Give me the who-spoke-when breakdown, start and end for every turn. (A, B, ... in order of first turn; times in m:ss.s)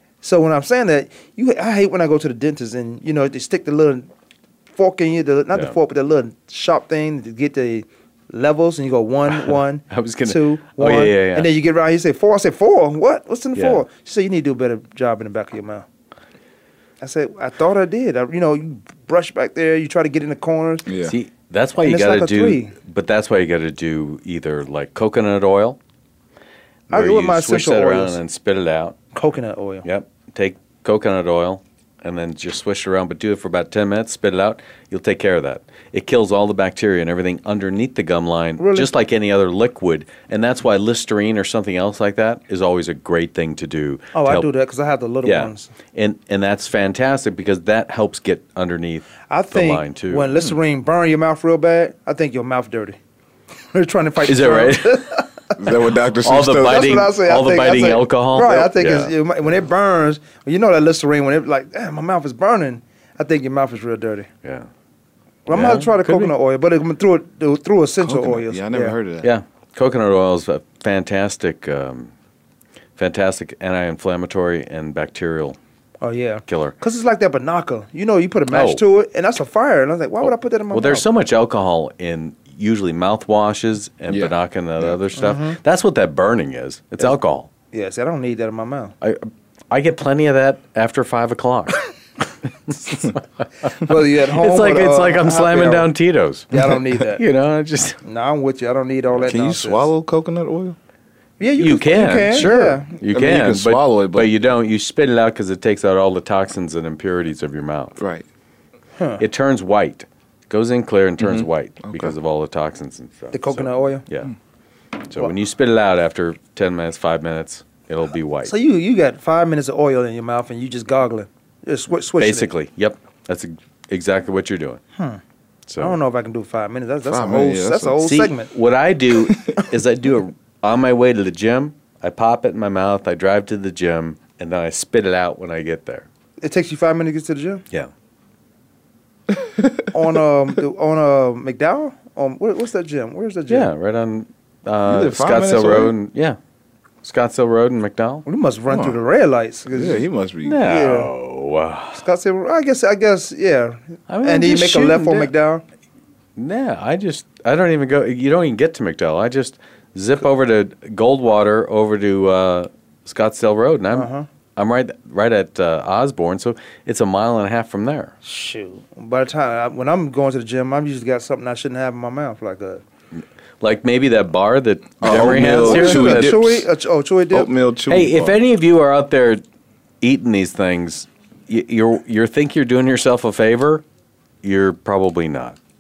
0:00.2-0:04.1 A
0:04.8-0:15.9 A
0:09.3-0:11.5 B
0:13.6-0:13.8 B
0:17.0-0:20.9 A
0:20.9-0:21.1 C
0:21.0-0:25.8 B
0:21.8-0:22.7 A
0:26.9-0:29.0 B
0:26.9-0:28.2 A
0:29.1-0:29.8 A
0:29.8-0:44.5 B
0:38.6-0:38.9 A
0:44.1-0:45.7 A
0:45.2-0:50.5 B
0:49.3-0:53.0 A
0:53.7-0:55.6 A
0:54.2-0:55.0 B
0:55.6-0:57.1 C
0:56.2-0:59.1 B
0:56.7-1:04.3 A
1:05.5-1:09.0 A
1:05.5-1:06.3 B
1:08.0-1:09.3 C
1:09.2-1:12.1 B
1:13.0-1:15.6 B
1:16.0-1:21.1 A
1:16.5-1:16.8 B
1:18.5-1:18.8 B
1:20.2-1:27.5 B
1:24.1-1:25.0 C
1:25.2-1:25.6 A
1:27.7-1:29.0 A
1:29.0-1:31.9 B
1:32.5-1:38.0 B
1:33.8-1:35.9 A
1:36.5-1:37.2 A
1:38.0-1:39.9 A
1:39.2-1:40.8 C
1:41.4-1:42.9 A
1:41.6-1:48.0 B
1:43.0-1:44.4 C
1:48.0-1:48.2 C
1:49.2-1:54.3 B
1:51.2-1:52.2 C
1:53.3-1:54.0 A
1:55.0-1:58.5 B
1:58.4-2:02.5 A
2:02.2-2:04.8 B
2:05.7-2:06.0 B
2:05.8-2:08.5 A
2:07.0-2:08.0 C
2:08.0-2:16.1 B
2:16.4-2:17.6 A
2:19.9-2:23.7 A
2:23.5-2:26.4 B
2:24.9-2:25.9 C
2:27.0-2:28.2 B
2:28.3-2:30.1 A
2:28.7-2:29.0 C
2:29.7-2:30.6 C
2:30.4-2:32.0 B
2:30.6-2:31.1 A
2:32.0-2:35.6 A
2:34.1-2:35.3 B
2:36.4-2:48.1 B
2:43.9-2:44.3 A
2:48.2-2:52.8 A
2:53.6-2:56.4 B
2:55.0-2:56.6 C
2:55.1-2:57.5 A
2:57.3-2:58.4 C
2:57.9-2:59.4 B
3:00.0-3:03.8 B
3:04.4-3:05.6 B